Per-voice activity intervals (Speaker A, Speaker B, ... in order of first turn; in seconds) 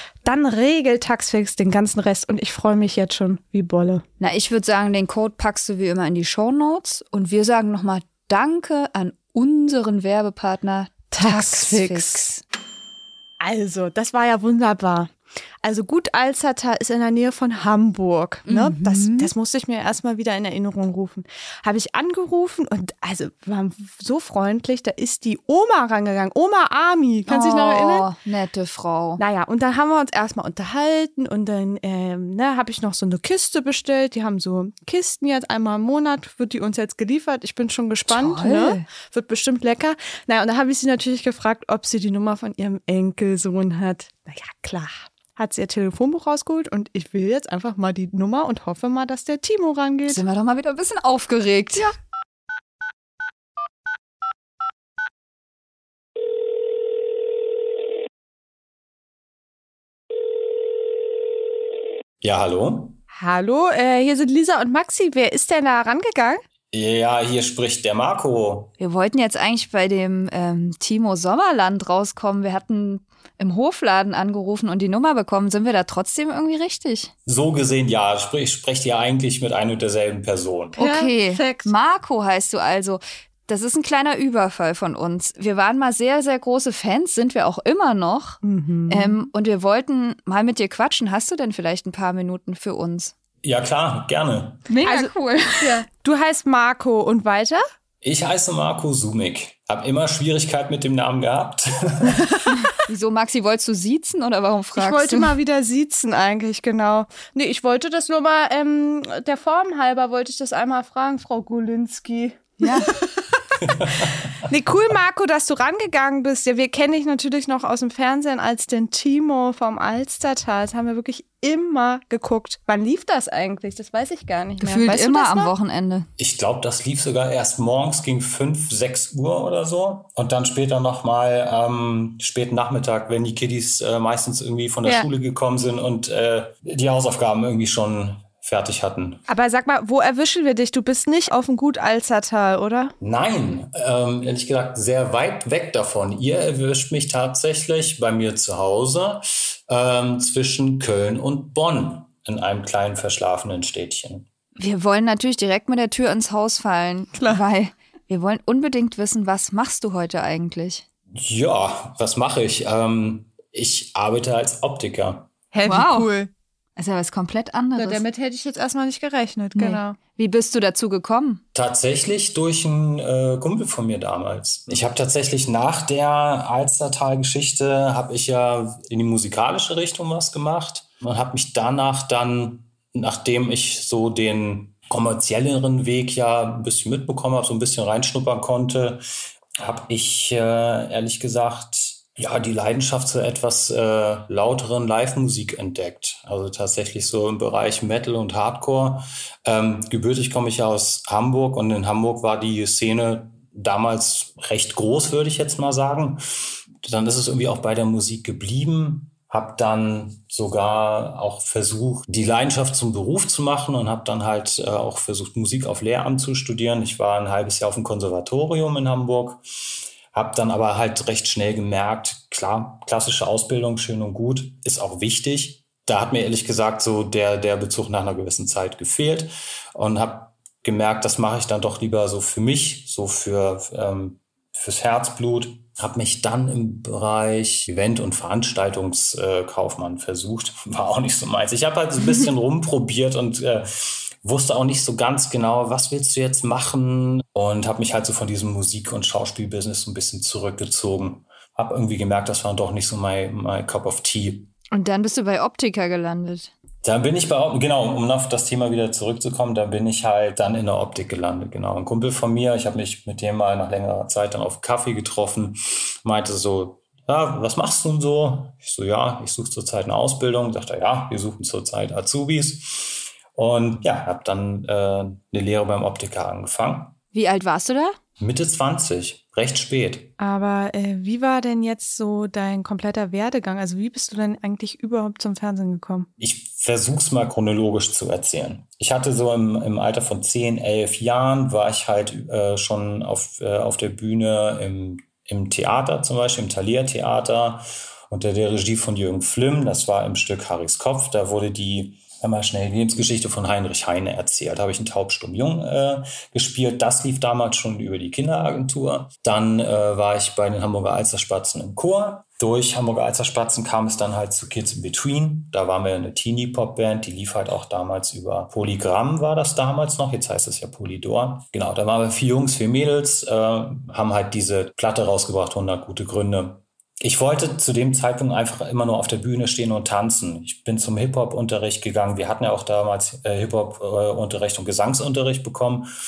Speaker A: 0.2-4.0, 11.1-12.2, 13.4-28.1, 29.2-50.2, 63.1-66.4, 80.8-81.7, 88.4-89.2, 94.8-97.6, 104.7-113.0, 114.4-125.5, 139.3-142.9, 157.1-157.4, 165.5-166.3, 167.8-170.0, 280.2-286.1
Speaker B: 4.2-12.4, 18.4-19.3, 27.3-29.2, 38.1-38.9, 50.1-51.9, 68.8-77.1, 80.8-93.1, 94.7-95.8, 102.8-105.3, 112.6-113.0, 124.6-126.1, 154.6-160.8, 165.6-166.1, 166.8-168.0, 169.6-171.4, 254.7-256.5, 277.1-278.0
Speaker C: 62.2-63.0, 66.7-68.7, 77.2-80.8, 93.4-94.7, 98.0-102.4, 113.6-114.3, 126.2-139.2, 143.0-154.3, 161.2-165.3, 171.5-189.0, 189.6-206.2, 206.8-219.4, 220.1-254.5, 256.8-276.9, 278.2-280.1, 286.2-335.9